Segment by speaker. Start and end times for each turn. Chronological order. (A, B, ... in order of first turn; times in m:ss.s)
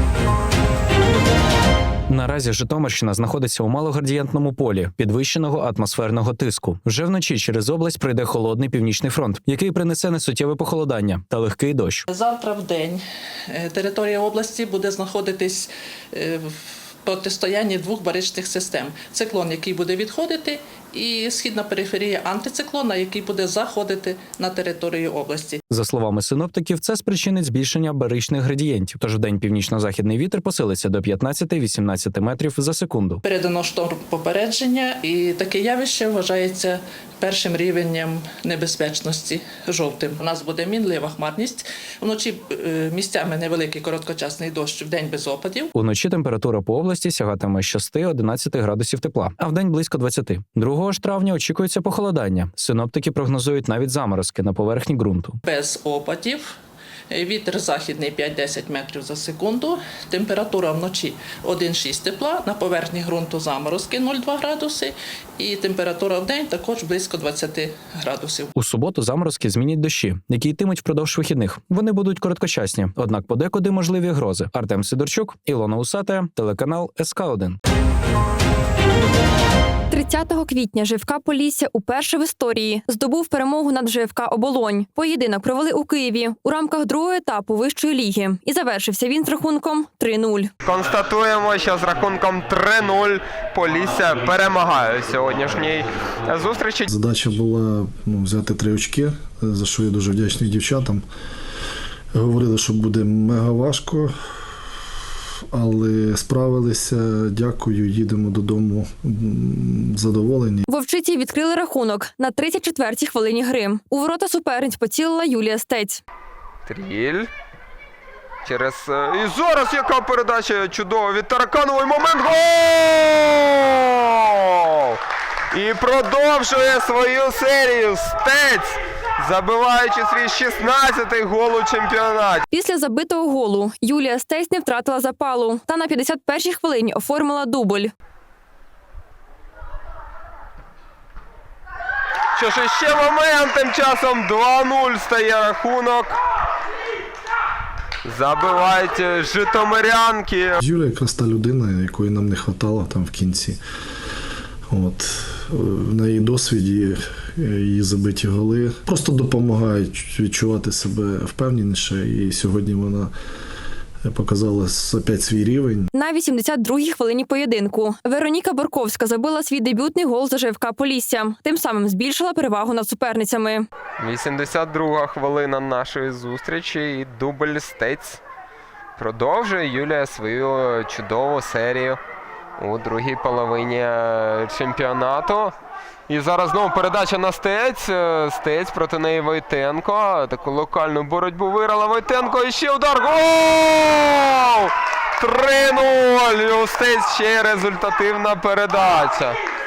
0:02.1-0:12.0 A
0:12.1-0:16.5 B
0:17.0-0:25.6 B
0:25.7-0:33.2 A
0:33.2-0:45.7 B
0:45.8-0:55.4 A
0:55.4-0:56.5 B
0:57.1-1:08.5 B
1:08.6-1:17.6 A
1:19.9-1:30.5 C
1:30.6-1:36.9 D
1:36.9-1:41.0 E
1:42.1-1:44.1 E
1:45.5-1:50.6 E
1:50.7-1:56.0 C
1:56.7-1:57.3 D
1:58.4-2:05.0 D
2:05.5-2:12.4 D
2:12.5-2:17.9 C
2:22.4-2:26.2 D
2:28.0-2:30.6 D
2:30.6-2:33.6 E
2:34.7-2:43.1 E
2:44.0-2:45.9 E
2:45.9-2:53.6 C
2:54.0-2:58.2 D
2:59.0-3:02.0 D
3:02.6-3:05.5 D
3:06.1-3:19.4 D